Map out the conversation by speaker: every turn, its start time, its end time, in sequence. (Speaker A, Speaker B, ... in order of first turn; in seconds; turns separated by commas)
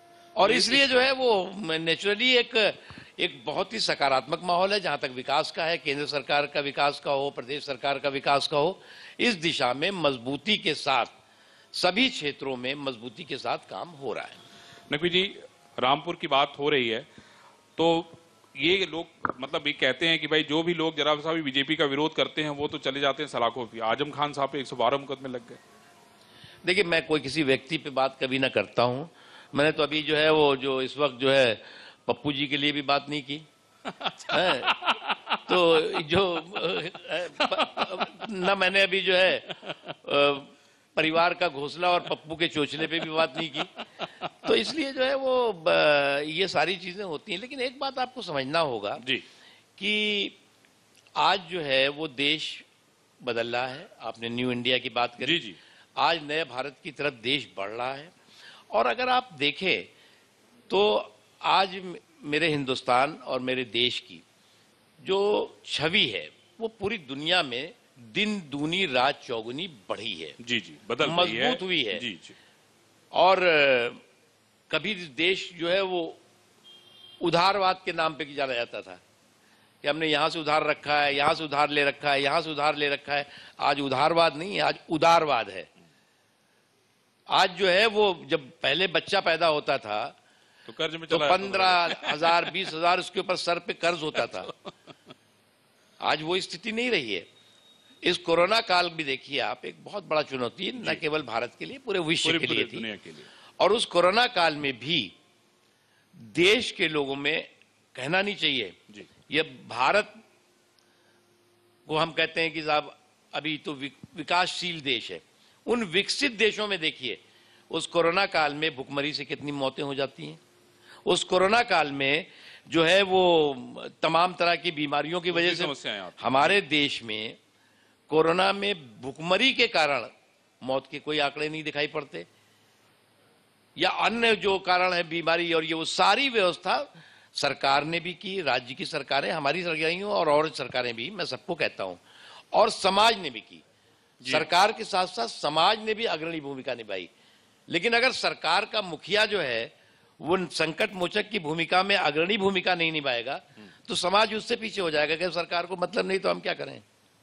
Speaker A: 0.3-11.1, Speaker B: 0.4-1.1, Speaker A: 11.7-14.4, Speaker B: 14.9-17.1, Speaker B: 17.8-25.6, Speaker A: 26.6-33.5, Speaker B: 33.9-36.0, Speaker A: 34.3-34.8, Speaker A: 35.5-43.7, Speaker B: 37.3-38.3, Speaker B: 42.9-44.0, Speaker A: 44.4-49.0, Speaker A: 49.8-50.3, Speaker A: 51.2-52.6, Speaker A: 53.2-55.4, Speaker B: 55.2-55.6, Speaker A: 56.0-58.1, Speaker A: 58.7-59.9, Speaker A: 60.7-64.2, Speaker A: 65.0-70.4, Speaker B: 70.4-72.3, Speaker A: 71.0-72.0, Speaker A: 73.1-74.0, Speaker A: 74.7-76.2, Speaker A: 77.2-79.0, Speaker A: 79.8-85.7, Speaker A: 87.3-90.1, Speaker B: 90.7-92.5, Speaker A: 91.1-94.5, Speaker B: 94.2-94.7, Speaker A: 96.0-97.2, Speaker A: 98.0-102.9, Speaker B: 102.2-103.3, Speaker A: 103.6-105.1, Speaker A: 106.2-108.8, Speaker A: 109.3-110.2, Speaker A: 111.8-120.4, Speaker A: 121.0-127.4, Speaker B: 125.3-126.6, Speaker A: 128.1-130.1, Speaker A: 130.6-132.3, Speaker A: 133.8-142.0, Speaker A: 142.5-143.6, Speaker B: 144.2-144.4, Speaker A: 144.2-147.1, Speaker A: 147.7-156.8